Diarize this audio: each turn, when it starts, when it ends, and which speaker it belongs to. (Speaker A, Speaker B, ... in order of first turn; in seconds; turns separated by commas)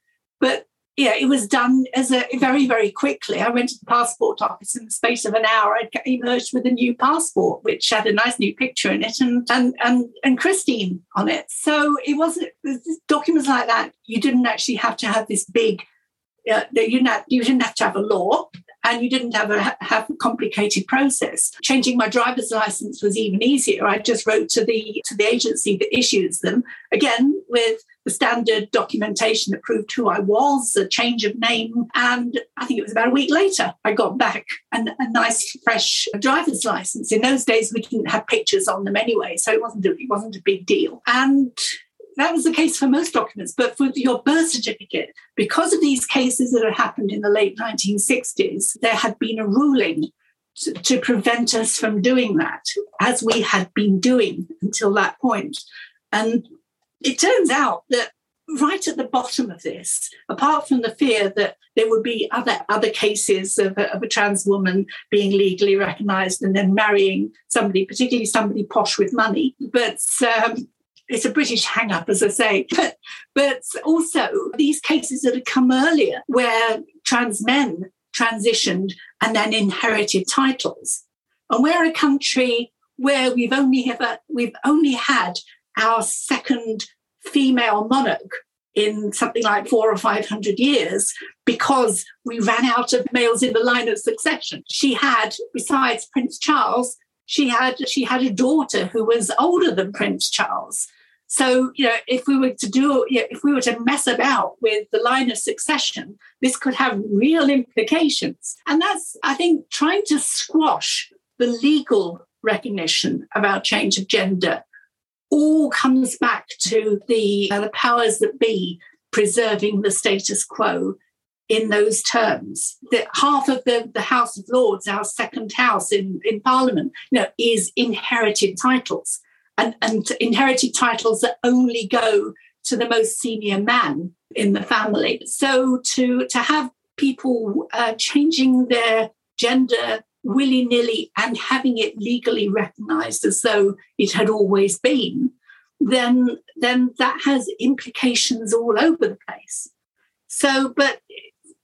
Speaker A: 0.4-15.8, Speaker A: 16.5-41.7, Speaker A: 42.2-55.6, Speaker A: 56.1-56.4, Speaker A: 57.0-114.6, Speaker A: 115.3-121.0, Speaker A: 121.5-149.7, Speaker A: 150.3-151.2